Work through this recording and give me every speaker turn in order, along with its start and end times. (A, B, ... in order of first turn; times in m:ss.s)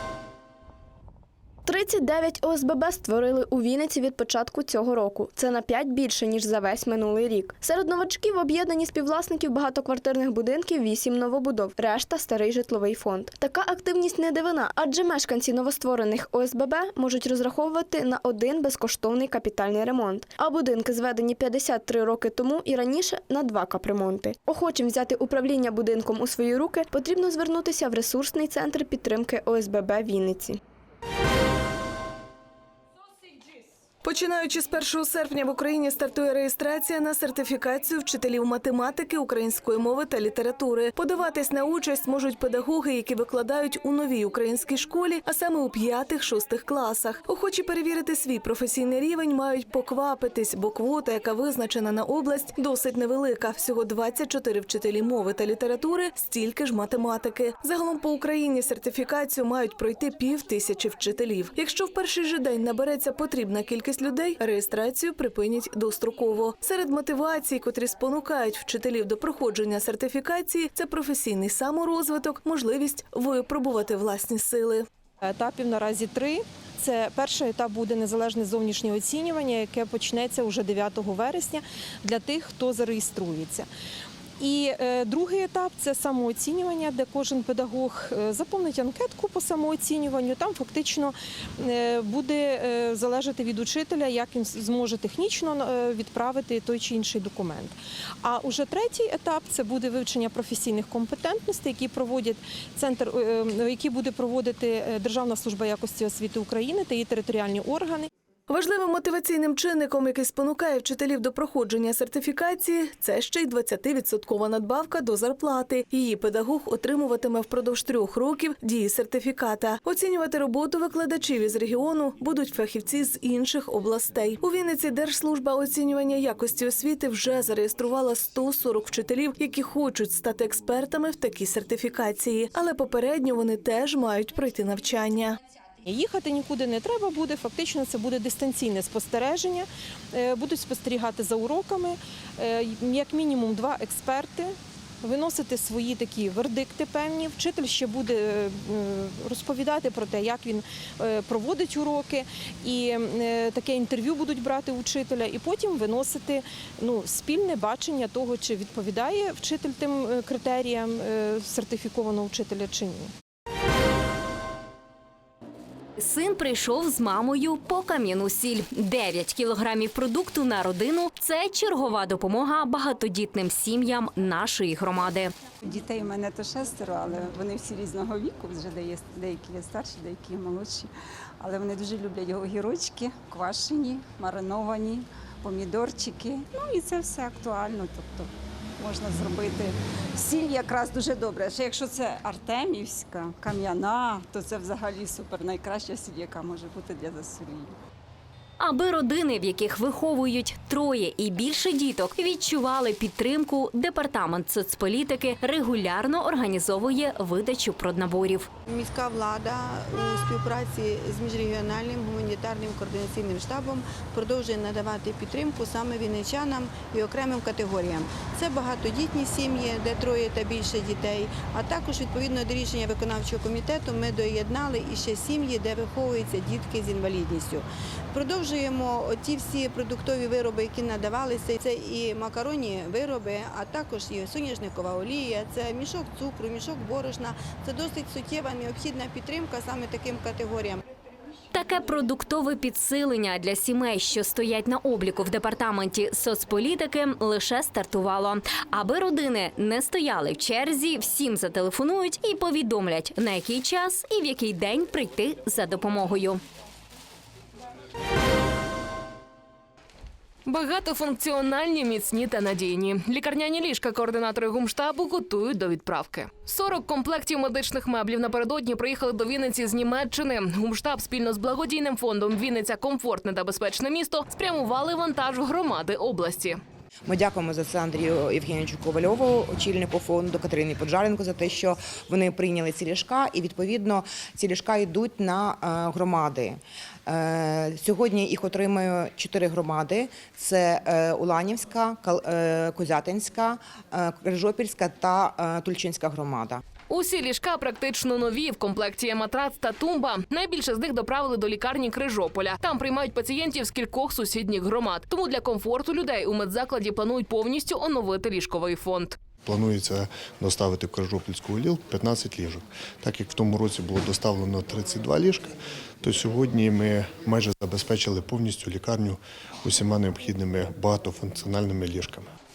0:01.7-0:30.6 A
0:34.0-1:14.9 B
1:15.3-1:23.6 C
1:24.4-1:31.1 C
1:31.7-1:37.6 C
1:38.2-1:48.0 C
1:48.5-2:15.4 B
2:15.9-2:19.6 C
2:20.2-2:21.9 C
2:22.4-2:24.4 C
2:25.1-2:28.0 C
2:29.3-2:30.4 C
2:31.6-2:32.0 C
2:33.6-2:35.6 C
2:37.4-2:38.1 C
2:46.0-2:55.3 D
2:55.6-3:17.7 E
3:18.6-3:28.5 D
3:28.7-4:00.8 F
4:01.5-4:16.4 D
4:20.5-4:36.6 G
4:37.1-4:56.6 H
4:56.9-5:09.2 G
5:09.4-5:22.3 I